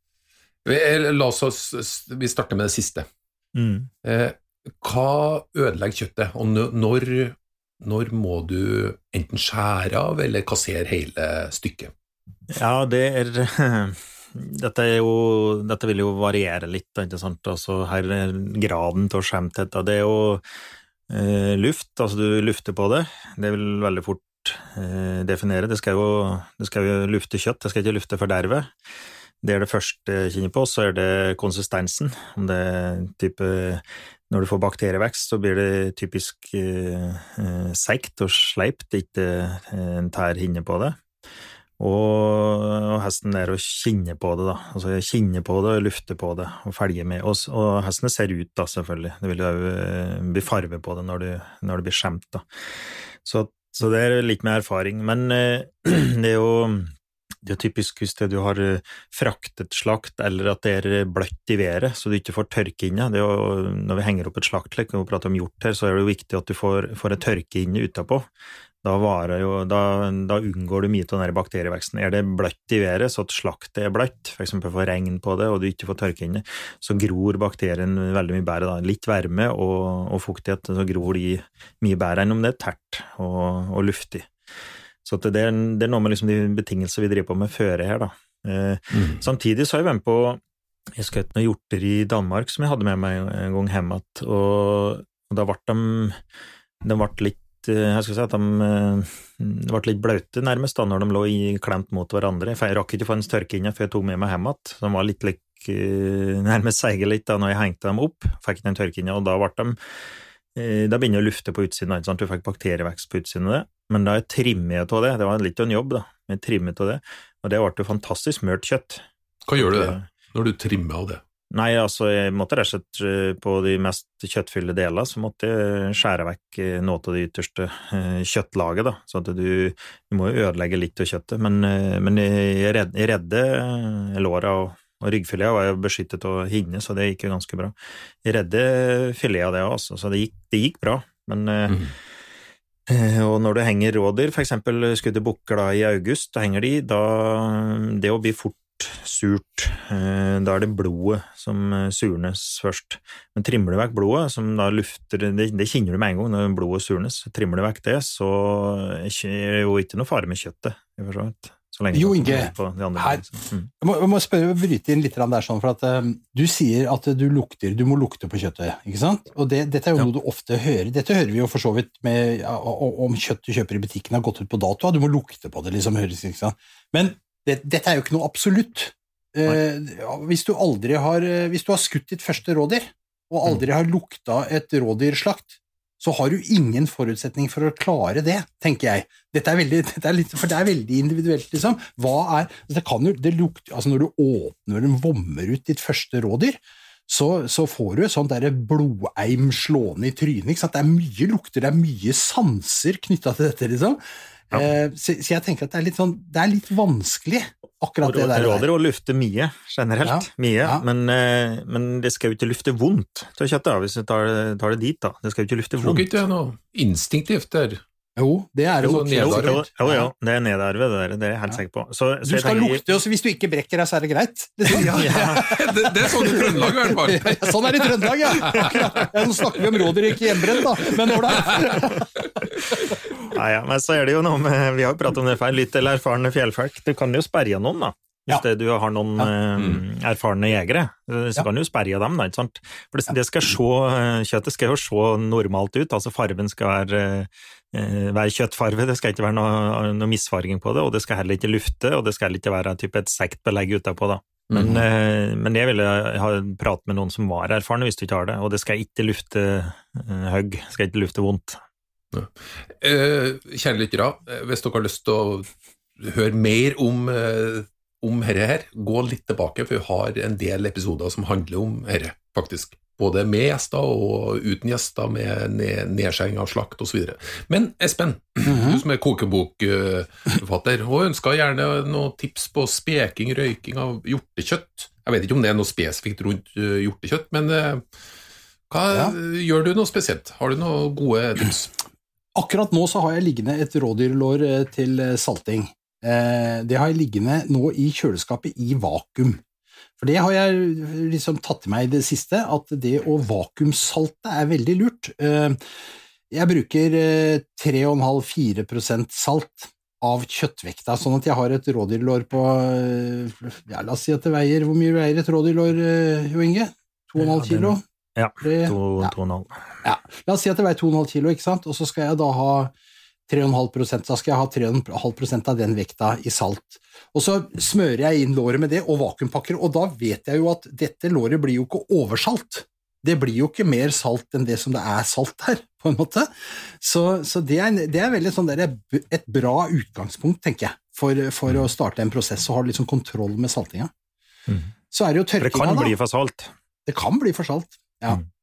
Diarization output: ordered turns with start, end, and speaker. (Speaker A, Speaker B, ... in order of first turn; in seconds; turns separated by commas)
Speaker A: 0.6-3.1, Speaker B: 3.5-3.9, Speaker A: 4.0-11.9, Speaker B: 12.5-20.4, Speaker B: 21.1-28.7, Speaker B: 29.4-41.0, Speaker B: 41.8-52.4, Speaker B: 53.2-56.9, Speaker B: 57.5-68.3, Speaker B: 68.8-84.3, Speaker B: 85.0-90.4, Speaker A: 88.9-89.2, Speaker B: 91.0-96.2, Speaker B: 96.8-109.8, Speaker B: 110.5-119.0, Speaker A: 119.5-121.2, Speaker B: 119.6-120.1, Speaker B: 121.5-141.9, Speaker B: 142.9-163.7, Speaker C: 161.9-163.2, Speaker C: 163.8-208.7, Speaker B: 208.0-216.1, Speaker C: 210.0-210.8, Speaker A: 215.8-217.8, Speaker C: 218.2-220.1, Speaker A: 218.8-219.6, Speaker B: 219.2-222.8, Speaker C: 222.2-232.1, Speaker B: 224.7-225.4, Speaker A: 224.8-228.8, Speaker A: 229.6-231.9, Speaker B: 231.6-232.1, Speaker B: 233.3-261.6, Speaker A: 254.5-254.8, Speaker A: 262.1-265.5, Speaker A: 266.0-287.8, Speaker C: 278.5-278.8, Speaker A: 288.7-291.8, Speaker C: 292.4-299.4, Speaker C: 300.0-305.6, Speaker C: 306.3-317.8, Speaker B: 317.2-319.6, Speaker C: 318.4-319.1, Speaker C: 319.8-322.7, Speaker C: 323.3-343.9, Speaker C: 344.9-345.9, Speaker B: 345.4-346.5, Speaker C: 346.9-348.2